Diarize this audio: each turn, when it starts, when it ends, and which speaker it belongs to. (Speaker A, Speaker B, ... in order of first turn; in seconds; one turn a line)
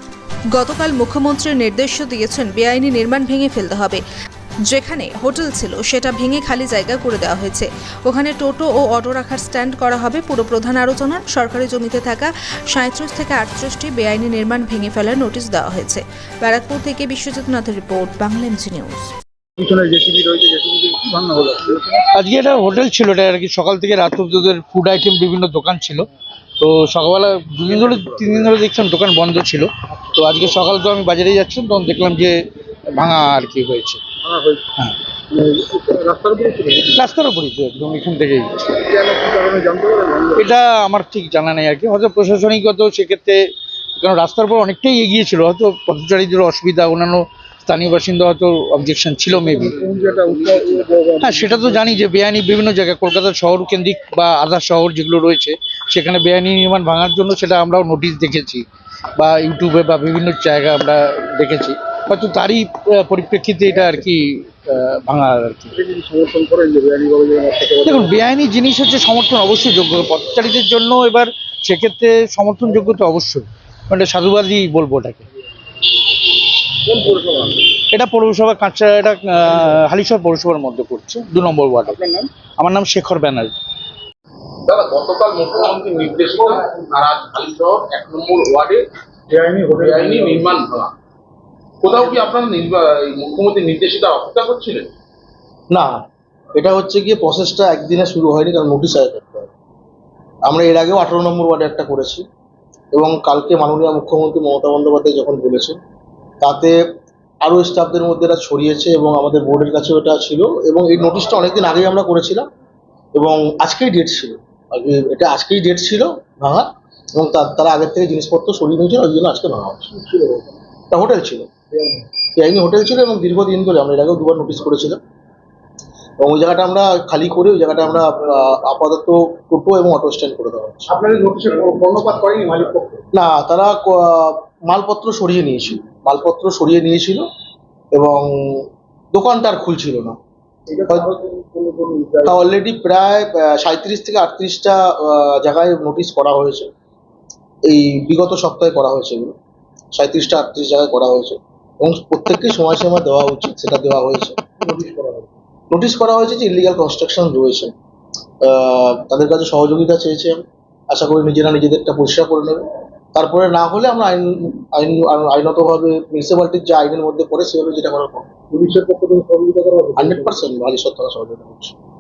Speaker A: 0.5-4.0
Speaker A: 4.7-19.1
Speaker B: 19.6-22.1
Speaker C: 22.1-26.1
Speaker C: 26.6-32.4
Speaker D: 27.7-28.5
Speaker C: 32.9-34.0
Speaker B: 34.2-34.7
Speaker B: 35.3-37.0
Speaker C: 36.9-38.8
Speaker B: 38.8-40.5
Speaker C: 40.4-43.4
Speaker C: 44.0-49.8
Speaker D: 49.3-50.9
Speaker B: 49.6-51.9
Speaker C: 51.2-58.6
Speaker C: 59.1-65.7
Speaker B: 65.7-68.3
Speaker C: 67.8-75.2
Speaker B: 76.8-77.6
Speaker C: 77.8-83.5
Speaker B: 81.8-82.3
Speaker D: 84.7-88.8
Speaker B: 89.3-90.5
Speaker D: 89.7-90.9
Speaker D: 91.8-94.9
Speaker E: 95.7-99.5
Speaker E: 100.5-102.2
Speaker E: 102.9-105.8
Speaker E: 106.4-106.8
Speaker E: 107.4-112.5
Speaker E: 113.1-120.0
Speaker B: 120.0-120.5
Speaker E: 120.9-121.5
Speaker B: 121.7-122.0
Speaker E: 122.4-125.0
Speaker E: 126.2-130.9
Speaker B: 130.9-133.1
Speaker E: 133.1-137.2
Speaker E: 137.9-140.2
Speaker B: 140.7-142.4
Speaker E: 142.2-146.7
Speaker E: 147.7-149.3
Speaker E: 149.9-154.4
Speaker B: 154.6-155.3
Speaker E: 155.7-157.7
Speaker E: 158.4-168.3
Speaker B: 168.5-170.4
Speaker E: 170.0-171.8